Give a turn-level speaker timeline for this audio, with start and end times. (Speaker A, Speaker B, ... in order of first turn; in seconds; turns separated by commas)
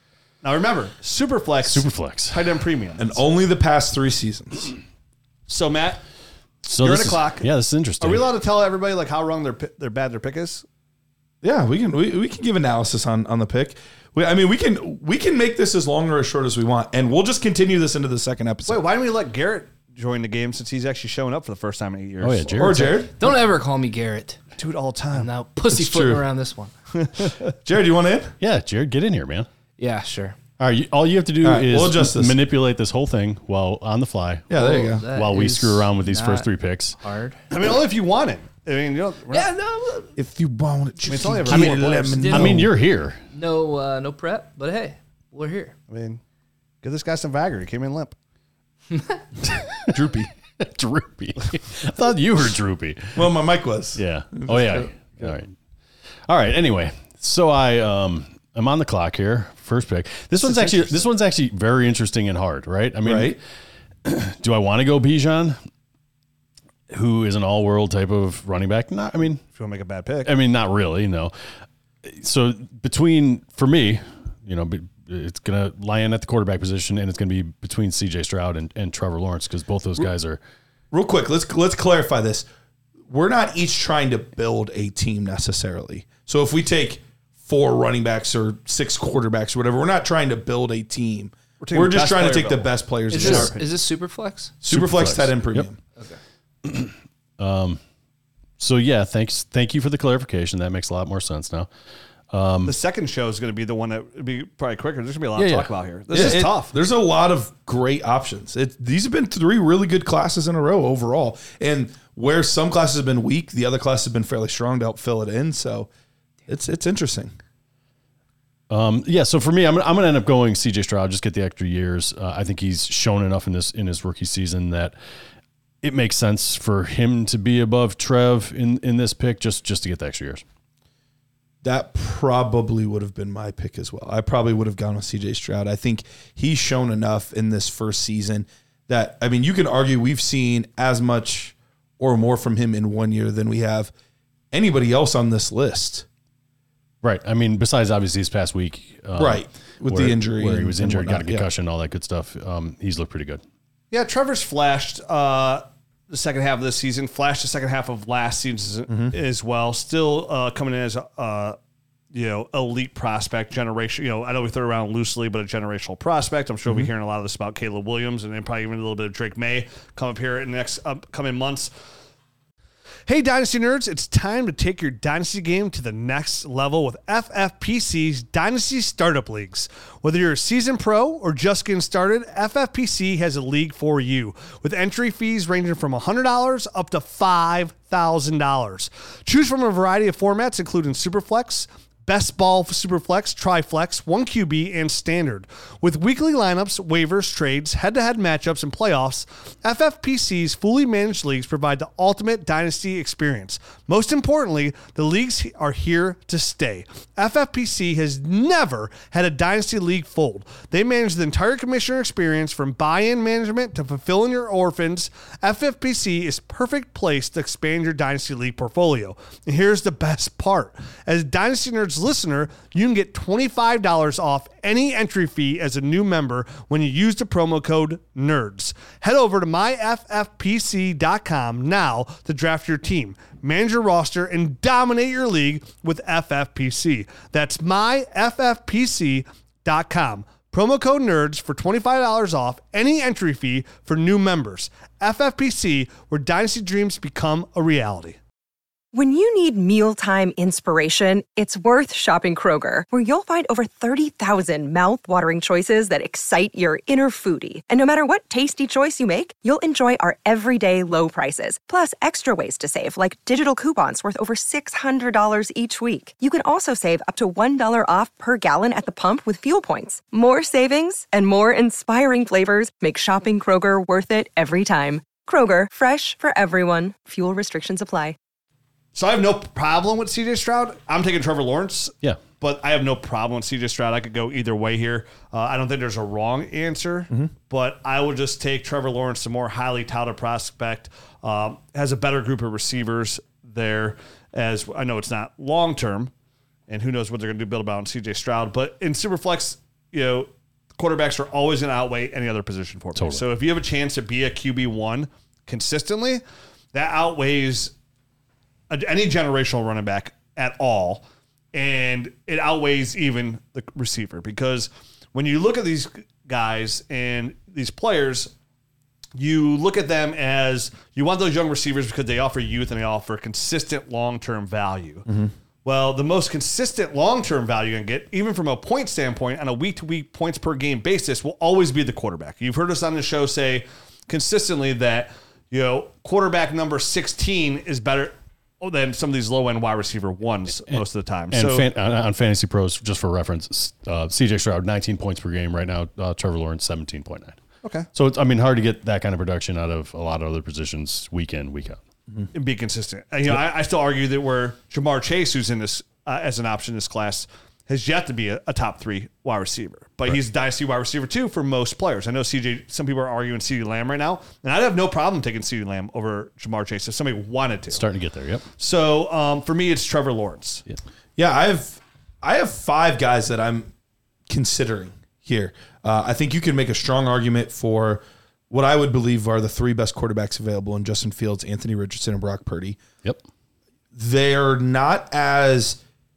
Speaker A: 0.4-3.2, Speaker B: 1.6-2.4, Speaker C: 3.0-4.7, Speaker A: 5.5-6.0, Speaker B: 6.6-8.3, Speaker A: 6.8-7.5, Speaker A: 8.0-10.6, Speaker C: 11.4-18.8, Speaker A: 18.6-22.8, Speaker B: 22.2-23.0, Speaker C: 22.5-23.1, Speaker D: 23.1-24.4, Speaker A: 24.6-25.3, Speaker D: 25.1-26.7, Speaker C: 25.7-26.2, Speaker A: 26.9-27.5, Speaker C: 27.6-28.3, Speaker B: 28.4-29.5, Speaker D: 29.8-30.4, Speaker B: 30.6-37.0, Speaker C: 31.4-32.4, Speaker C: 34.5-35.1, Speaker D: 34.5-36.5, Speaker D: 37.0-37.4, Speaker A: 37.5-39.4, Speaker D: 39.3-40.1, Speaker C: 40.1-42.7, Speaker A: 41.0-42.3, Speaker B: 41.5-43.2, Speaker D: 42.1-42.6, Speaker D: 43.3-45.7, Speaker A: 45.9-46.2, Speaker A: 46.8-48.1, Speaker D: 48.9-49.2, Speaker B: 49.5-50.0, Speaker C: 49.9-50.3, Speaker B: 50.6-53.3, Speaker C: 53.1-55.4, Speaker B: 54.0-55.5, Speaker B: 56.3-63.4, Speaker C: 60.4-61.0, Speaker C: 63.0-63.4, Speaker B: 64.0-65.6, Speaker B: 66.9-69.4, Speaker A: 69.5-70.3, Speaker B: 70.2-71.3, Speaker B: 72.0-80.4, Speaker C: 80.9-82.5, Speaker C: 83.1-93.5, Speaker A: 91.6-93.7, Speaker D: 93.1-94.5, Speaker C: 94.6-95.8, Speaker B: 94.7-95.7, Speaker B: 96.6-97.8, Speaker B: 98.6-101.7, Speaker B: 102.3-102.7, Speaker A: 102.6-106.7, Speaker B: 105.3-106.5, Speaker C: 106.1-115.9, Speaker C: 116.5-117.3, Speaker B: 118.7-125.0, Speaker B: 125.8-130.4, Speaker C: 131.6-143.9, Speaker C: 144.5-146.1, Speaker B: 147.0-153.4, Speaker C: 149.1-151.4, Speaker A: 153.9-161.6, Speaker C: 158.9-159.2, Speaker A: 162.1-171.7, Speaker A: 173.1-248.2, Speaker E: 248.9-278.1, Speaker A: 278.9-296.1, Speaker A: 296.7-306.2, Speaker B: 302.9-303.2, Speaker A: 306.7-307.7, Speaker A: 308.7-318.3, Speaker A: 319.1-325.1, Speaker A: 325.6-341.7, Speaker B: 340.7-347.4, Speaker B: 347.9-351.8, Speaker A: 352.3-367.8, Speaker B: 367.7-368.4, Speaker A: 368.6-370.6, Speaker C: 371.2-373.7, Speaker C: 374.3-382.8, Speaker C: 383.9-385.8